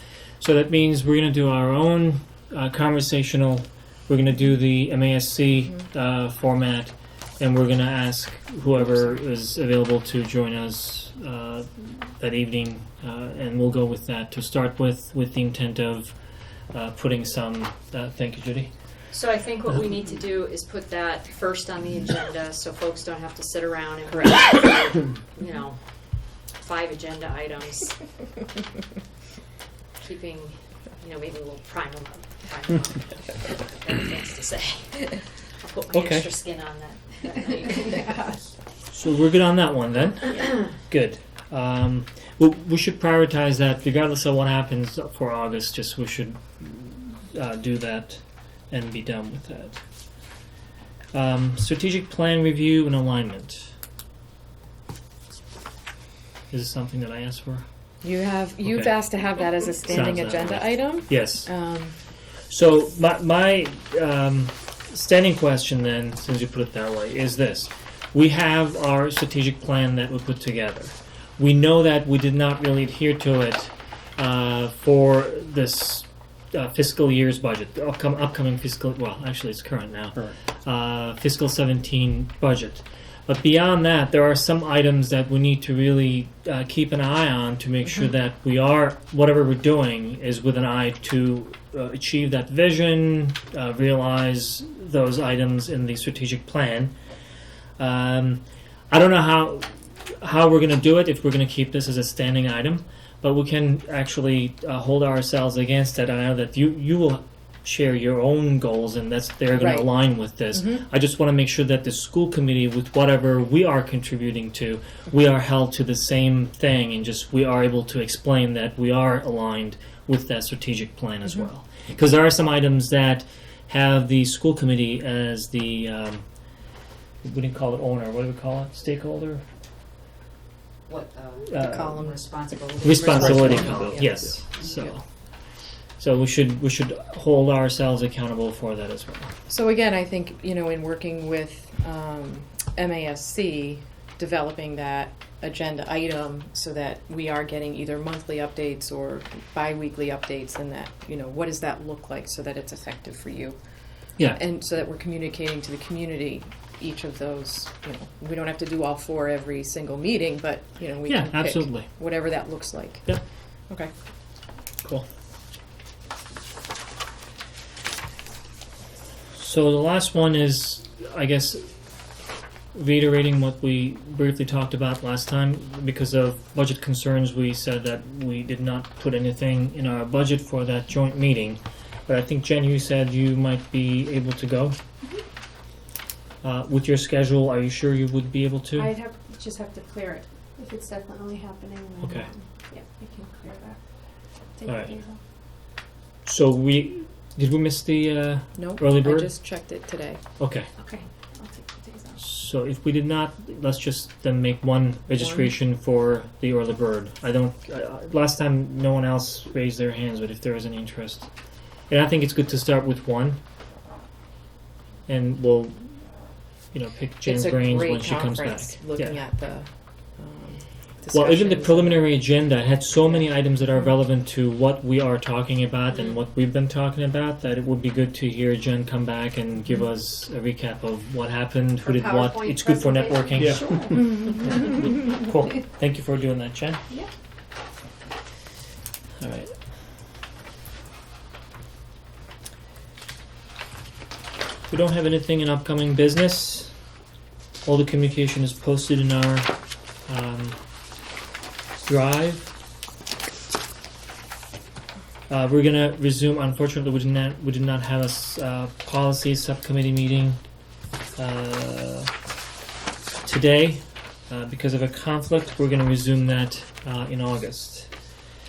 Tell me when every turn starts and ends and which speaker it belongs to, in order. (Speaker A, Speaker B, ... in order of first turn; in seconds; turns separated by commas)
Speaker A: 0.4-16.1, Speaker A: 16.7-18.7, Speaker B: 19.1-25.8, Speaker B: 26.6-28.0, Speaker B: 30.0-38.4, Speaker A: 35.9-36.3, Speaker A: 38.9-49.8, Speaker B: 40.3-40.6, Speaker A: 51.1-53.7, Speaker A: 56.5-57.6, Speaker C: 58.0-61.9, Speaker A: 58.6-58.9, Speaker A: 59.9-61.5, Speaker A: 62.5-96.9, Speaker A: 97.8-126.2, Speaker C: 109.6-109.9, Speaker A: 127.2-129.4, Speaker B: 130.9-134.6, Speaker A: 131.5-132.1, Speaker C: 131.5-134.9, Speaker A: 132.8-135.0, Speaker A: 136.0-139.3, Speaker C: 139.5-153.6, Speaker C: 154.3-163.1, Speaker A: 161.1-161.9, Speaker A: 169.3-171.7, Speaker A: 172.7-184.8, Speaker A: 186.4-188.9, Speaker D: 188.8-193.8, Speaker A: 192.0-192.3, Speaker D: 194.6-195.2, Speaker A: 194.7-195.0, Speaker A: 196.2-199.3, Speaker C: 198.6-200.2, Speaker A: 200.4-200.7, Speaker D: 200.8-202.2, Speaker A: 202.2-211.3, Speaker C: 205.2-205.5, Speaker A: 211.9-213.4, Speaker A: 215.1-215.9, Speaker A: 216.7-219.2, Speaker C: 217.2-222.2, Speaker A: 221.1-236.8, Speaker C: 223.0-223.3, Speaker B: 231.8-233.6, Speaker D: 233.4-234.4, Speaker A: 239.2-239.5, Speaker A: 244.7-246.7, Speaker A: 247.6-249.5, Speaker A: 250.1-250.6, Speaker A: 251.8-252.5, Speaker A: 255.3-260.4, Speaker A: 261.2-262.1, Speaker A: 263.2-267.9